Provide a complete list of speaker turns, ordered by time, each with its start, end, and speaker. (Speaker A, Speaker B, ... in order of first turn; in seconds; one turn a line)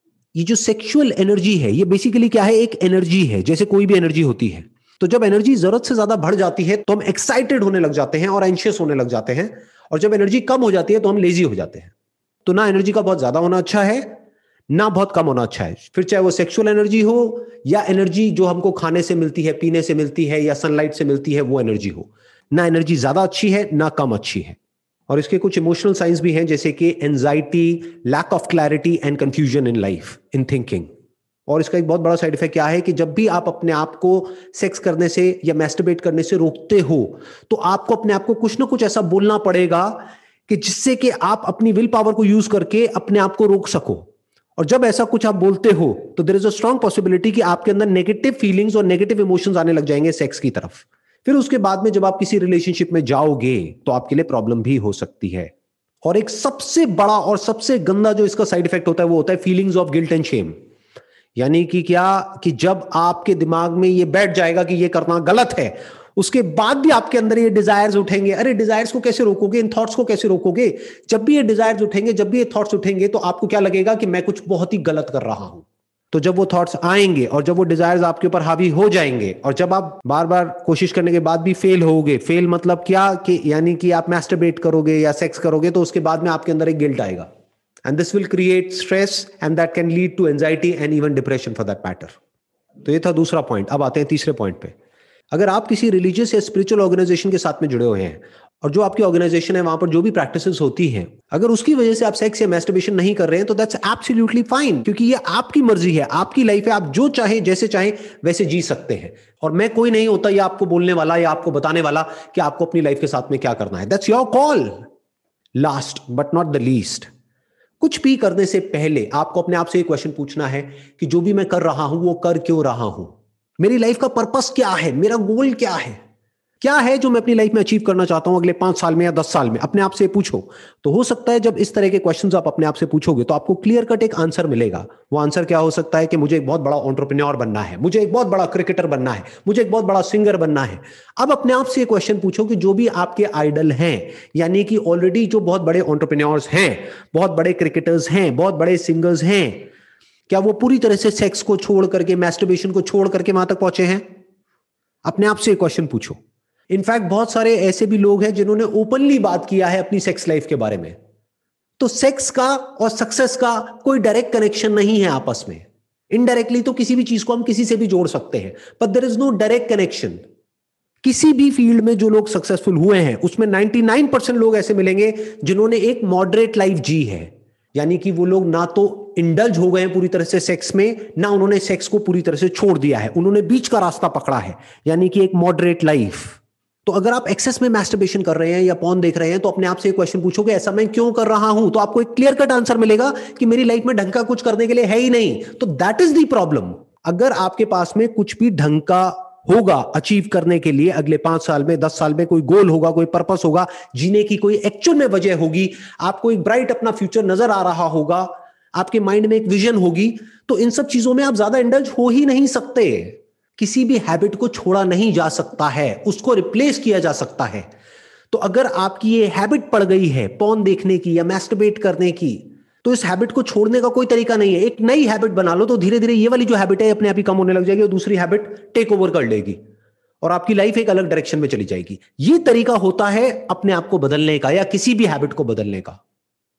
Speaker A: 0.3-11.9
Speaker A: 12.4-14.1
Speaker A: 14.7-24.6
Speaker A: 25.1-30.9
Speaker A: 31.5-55.5
Speaker A: 56.0-60.5
Speaker A: 61.4-87.3
Speaker A: 87.8-92.2
Speaker A: 92.8-94.7
Speaker A: 95.3-114.8
Speaker A: 115.5-117.1
Speaker A: 117.8-126.0
Speaker A: 126.6-149.7
Speaker A: 150.3-154.0
Speaker A: 155.0-156.2
Speaker A: 156.7-160.9
Speaker A: 161.8-170.2
Speaker A: 171.0-217.7
Speaker A: 218.3-229.6
Speaker A: 230.2-236.0